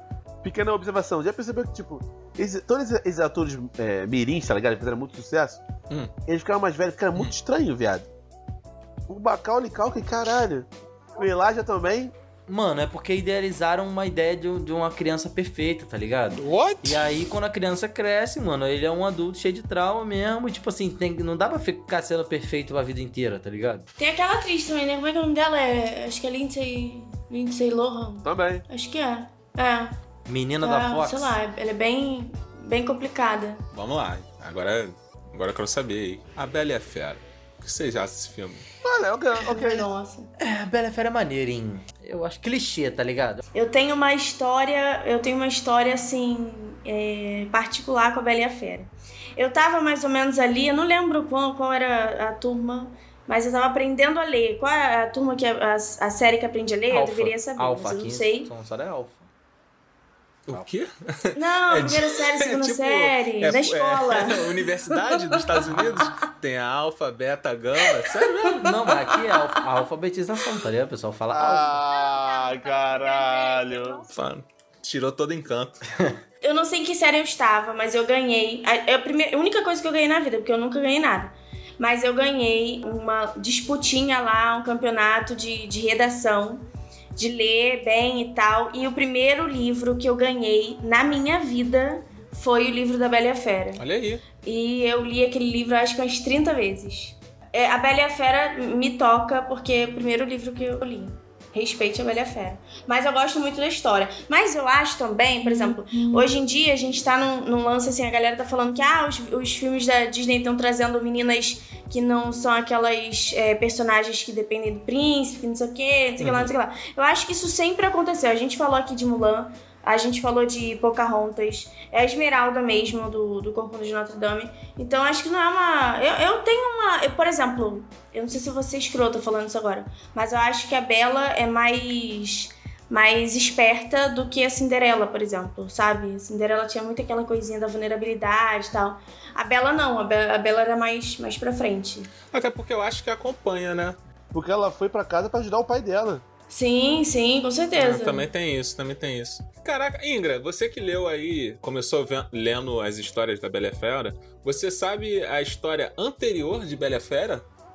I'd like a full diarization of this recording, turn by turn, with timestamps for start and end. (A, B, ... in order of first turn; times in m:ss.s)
0:00.4-0:05.6 A
0:06.3-0:08.1 A
0:09.1-0:12.1 A
0:12.5-0:23.8 B
0:24.0-0:30.0 C
0:28.2-0:28.6 A
0:30.3-0:31.4 B
0:30.6-0:33.6 C
0:33.7-0:38.6 D
0:38.8-0:39.9 A
0:39.4-0:40.3 C
0:40.4-0:43.4 B
0:43.5-0:58.5 C
0:56.9-0:59.3 B
1:00.5-1:08.6 D
1:01.4-1:05.8 C
1:08.0-1:08.7 C
1:08.5-1:11.8 B
1:11.3-1:14.1 A
1:14.1-1:15.8 D
1:16.4-1:33.8 C
1:33.8-1:34.2 D
1:34.4-2:22.1 C
2:22.3-2:24.0 D
2:24.3-2:26.2 A
2:26.5-2:28.3 C
2:27.8-2:37.5 D